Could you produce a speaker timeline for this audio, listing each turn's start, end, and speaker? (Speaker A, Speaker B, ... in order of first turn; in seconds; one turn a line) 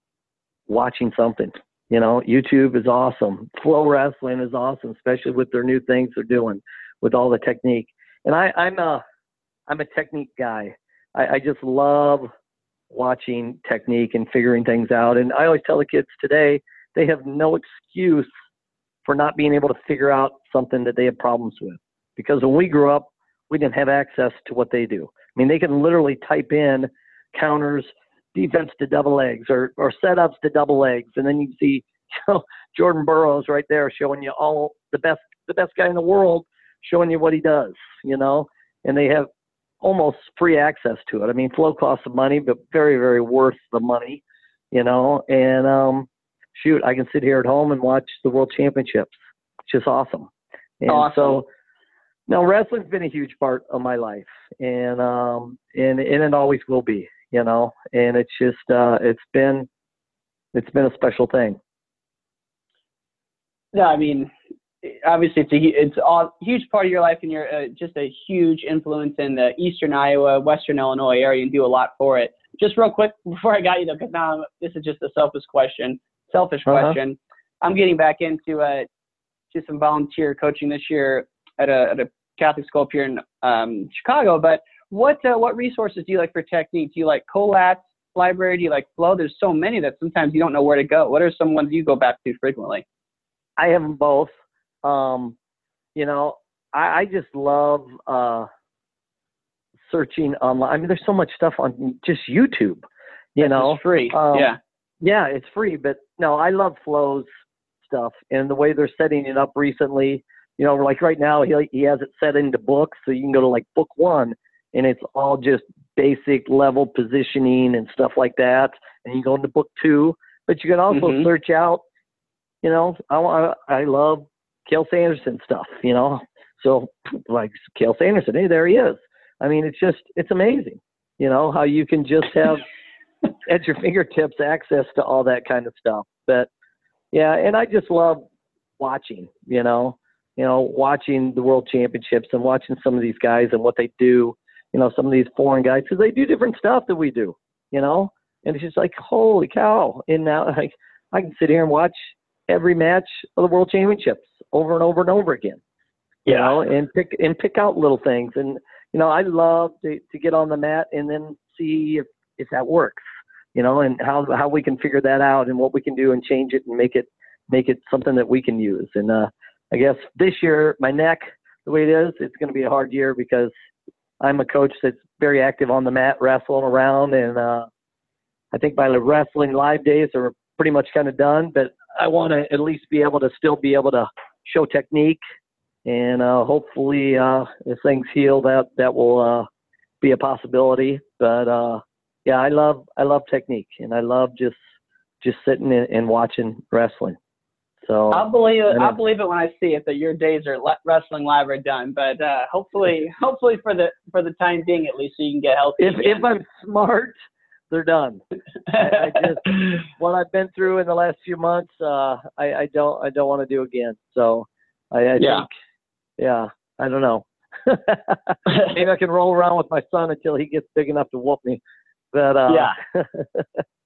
Speaker A: 0.7-9.0
Speaker A: 9.7-12.3
Speaker A: 12.9-18.3
Speaker A: 19.1-39.3
Speaker A: 39.8-49.1
Speaker A: 49.7-50.3
Speaker A: 50.8-51.5
Speaker B: 50.9-51.4
Speaker A: 52.3-59.7
Speaker A: 60.5-61.6
Speaker B: 63.7-64.3
Speaker B: 64.8-78.9
Speaker A: 76.7-77.0
Speaker B: 79.5-92.8
Speaker A: 93.6-94.3
Speaker A: 94.8-95.3
Speaker A: 96.0-98.5
Speaker A: 99.9-102.8
Speaker A: 103.4-104.5
Speaker B: 103.4-104.6
Speaker A: 105.0-107.3
Speaker A: 107.8-121.8
Speaker B: 120.9-121.3
Speaker A: 122.6-132.6
Speaker A: 133.4-136.5
Speaker A: 137.1-138.3
Speaker A: 138.8-155.6
Speaker B: 156.3-156.6
Speaker A: 156.3-163.0
Speaker A: 163.6-173.5
Speaker A: 174.2-177.7
Speaker A: 178.5-185.2
Speaker A: 185.9-189.5
Speaker A: 190.0-194.6
Speaker A: 195.2-197.2
Speaker A: 197.9-199.0
Speaker B: 198.1-206.3
Speaker A: 205.8-207.1
Speaker A: 207.7-208.2
Speaker A: 208.7-215.5
Speaker B: 215.2-215.5
Speaker A: 216.2-221.6
Speaker A: 222.1-223.6
Speaker B: 222.5-222.8